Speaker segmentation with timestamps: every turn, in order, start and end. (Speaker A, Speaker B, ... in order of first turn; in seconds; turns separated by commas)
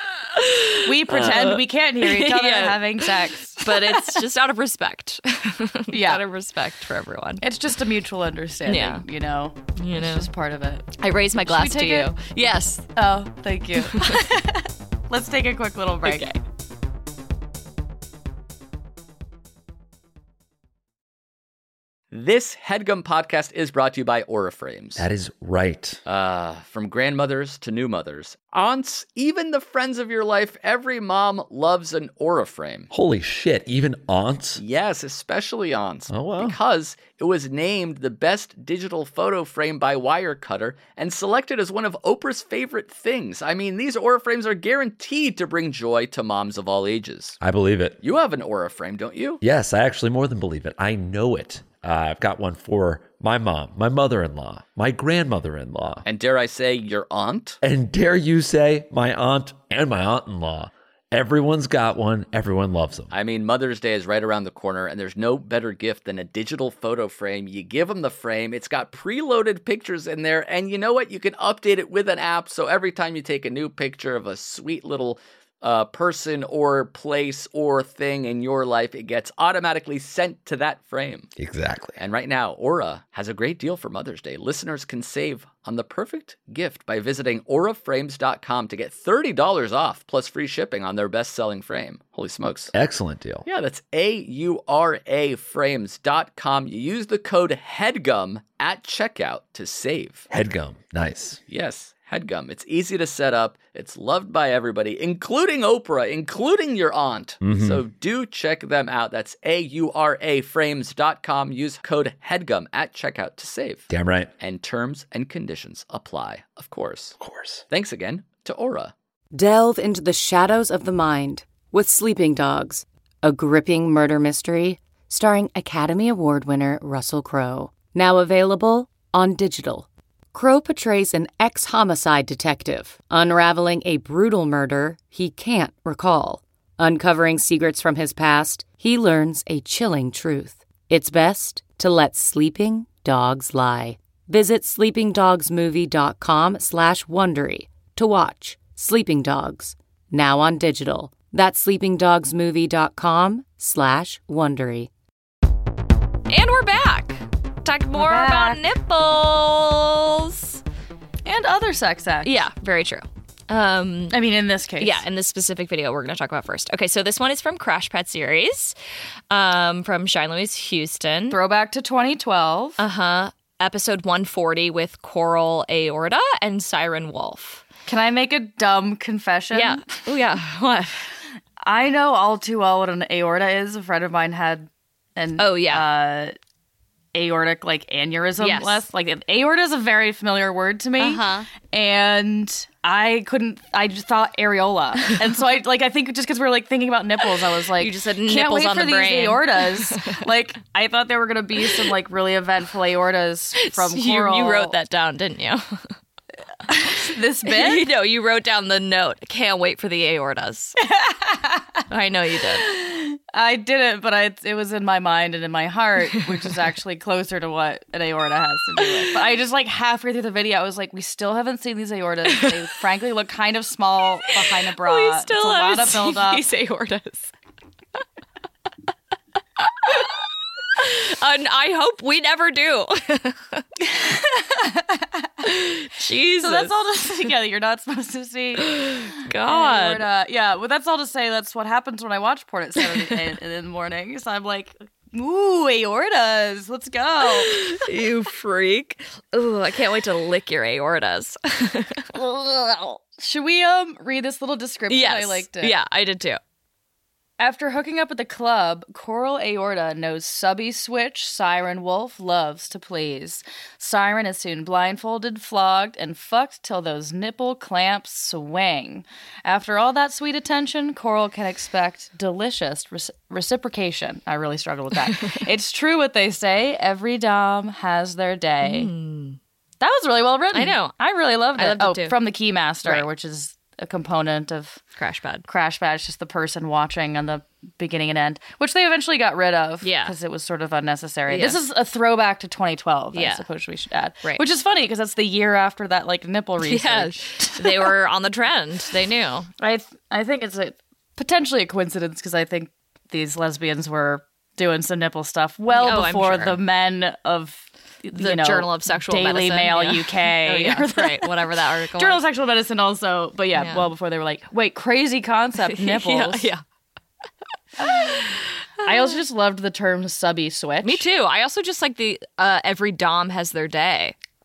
Speaker A: 0.3-7.5, Speaker B: 0.8-4.2, Speaker B: 5.9-6.2, Speaker B: 7.4-10.9, Speaker A: 8.7-9.1, Speaker A: 9.8-10.3, Speaker A: 11.0-12.9, Speaker B: 11.4-12.2, Speaker B: 13.0-16.3, Speaker A: 13.8-14.2, Speaker A: 16.1-16.4, Speaker C: 22.1-25.1, Speaker D: 25.0-26.0, Speaker C: 26.1-32.9, Speaker D: 32.9-34.6, Speaker C: 34.6-47.4, Speaker D: 36.1-36.6, Speaker D: 47.4-48.0, Speaker C: 48.0-49.4, Speaker D: 49.4-56.0, Speaker C: 56.0-57.6, Speaker D: 57.6-63.1, Speaker C: 63.1-81.3, Speaker D: 81.4-82.0, Speaker C: 82.0-92.7, Speaker D: 92.7-93.4, Speaker C: 93.5-100.3, Speaker D: 100.3-101.4, Speaker C: 101.5-117.2, Speaker D: 107.4-107.8, Speaker D: 113.9-114.3, Speaker D: 117.2-117.6, Speaker C: 117.7-118.9, Speaker E: 119.3-154.9, Speaker A: 156.3-160.6, Speaker B: 157.9-158.6, Speaker B: 161.2-162.3, Speaker A: 162.2-164.2, Speaker B: 164.1-165.0, Speaker A: 164.8-168.8, Speaker A: 169.3-171.4, Speaker B: 171.3-172.8, Speaker A: 172.8-177.7, Speaker B: 177.9-180.0, Speaker A: 179.5-181.2, Speaker B: 181.6-186.3, Speaker A: 185.4-185.9, Speaker B: 187.1-204.8, Speaker A: 188.4-188.8, Speaker A: 191.0-191.5, Speaker A: 197.8-200.2, Speaker A: 203.6-205.9, Speaker B: 206.7-207.9, Speaker A: 207.4-210.8, Speaker B: 210.8-211.8, Speaker A: 211.9-212.7, Speaker B: 212.6-226.4, Speaker A: 224.3-227.3, Speaker A: 229.6-230.1, Speaker A: 230.8-233.7, Speaker B: 233.8-235.4, Speaker A: 235.4-236.7, Speaker B: 236.4-247.7, Speaker A: 238.6-240.1, Speaker A: 242.8-243.1, Speaker A: 247.3-252.8, Speaker B: 252.2-255.8, Speaker A: 254.9-256.4, Speaker B: 257.4-278.9, Speaker A: 275.1-275.4, Speaker A: 278.6-279.4, Speaker B: 279.8-284.8, Speaker A: 280.5-281.0, Speaker A: 281.6-282.2, Speaker A: 285.0-285.5, Speaker B: 285.5-297.9, Speaker A: 289.8-290.2, Speaker A: 291.3-291.6, Speaker A: 293.1-293.4, Speaker A: 296.6-299.5, Speaker B: 299.6-311.4, Speaker A: 305.7-306.6, Speaker A: 308.1-312.2, Speaker B: 312.0-316.5, Speaker A: 313.6-313.9, Speaker A: 315.6-316.6, Speaker A: 317.8-319.2, Speaker B: 317.8-318.3, Speaker B: 318.8-321.0, Speaker A: 320.8-324.2